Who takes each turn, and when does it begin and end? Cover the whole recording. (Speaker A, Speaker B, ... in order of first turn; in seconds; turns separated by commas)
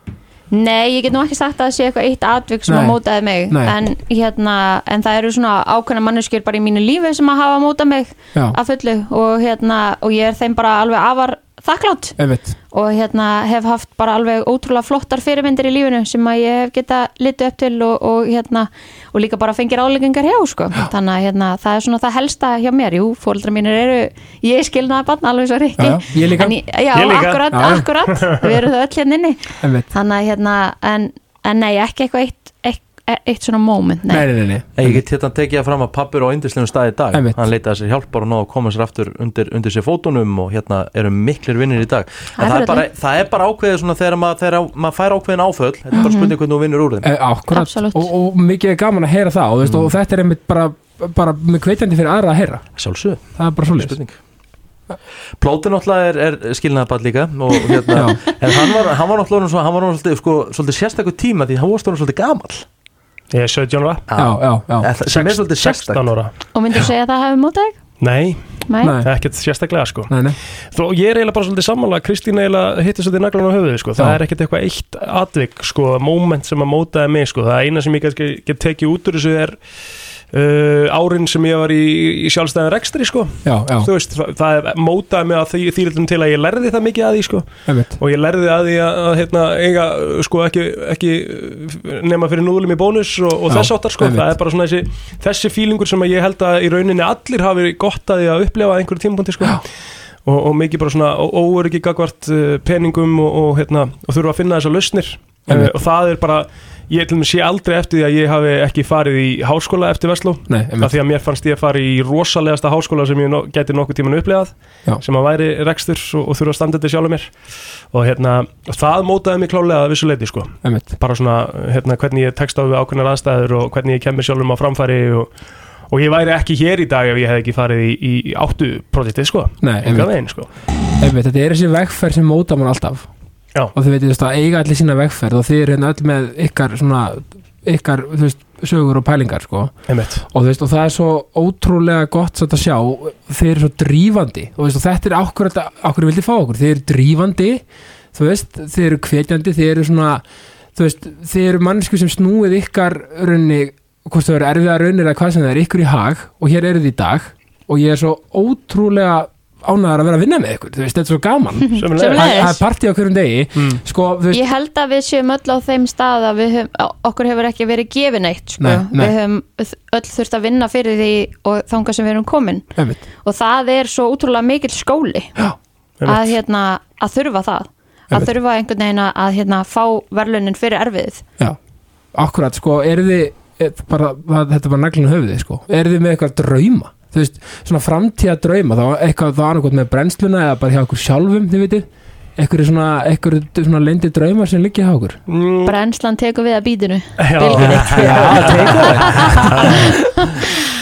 Speaker A: 0.5-12.2, Speaker B: 2.7-3.0, Speaker B: 3.5-3.7, Speaker B: 12.2-12.6, Speaker A: 12.7-34.3, Speaker B: 25.8-26.6, Speaker C: 26.9-28.6, Speaker B: 27.5-27.9, Speaker B: 29.6-29.9, Speaker B: 34.1-35.0, Speaker D: 34.8-47.1, Speaker B: 37.1-37.4, Speaker A: 42.4-42.8, Speaker A: 45.9-46.3, Speaker B: 47.0-52.6, Speaker A: 47.5-48.1, Speaker D: 49.6-49.9, Speaker D: 52.8-54.2, Speaker B: 53.4-54.0, Speaker D: 55.4-62.6, Speaker B: 57.9-58.2, Speaker C: 63.3-64.1, Speaker D: 64.1-66.1, Speaker B: 64.2-64.9, Speaker C: 65.0-66.3, Speaker A: 66.5-67.8, Speaker C: 68.0-70.1, Speaker A: 68.7-69.0, Speaker B: 68.8-69.1, Speaker B: 70.1-70.4, Speaker C: 70.7-79.6, Speaker C: 80.3-99.6, Speaker B: 83.4-83.9, Speaker B: 87.7-88.0, Speaker B: 93.5-94.3, Speaker C: 100.2-117.3, Speaker B: 105.5-105.7, Speaker B: 110.5-110.9, Speaker C: 117.9-125.3, Speaker B: 120.6-120.9, Speaker C: 125.9-130.5, Speaker B: 129.6-130.1, Speaker B: 131.0-133.1, Speaker B: 133.7-139.7, Speaker C: 139.9-140.2, Speaker B: 140.3-147.6, Speaker B: 148.1-150.2, Speaker B: 150.7-164.4, Speaker A: 161.6-162.6, Speaker C: 161.8-162.6, Speaker C: 163.6-163.8, Speaker A: 164.3-172.7, Speaker B: 168.6-169.1, Speaker B: 172.8-173.0, Speaker A: 173.2-175.3, Speaker C: 176.0-176.3, Speaker A: 176.1-181.2, Speaker B: 182.1-191.8, Speaker B: 192.4-195.2, Speaker C: 195.3-195.8, Speaker A: 195.6-199.9, Speaker C: 197.2-200.0, Speaker D: 197.5-199.7, Speaker B: 197.9-199.8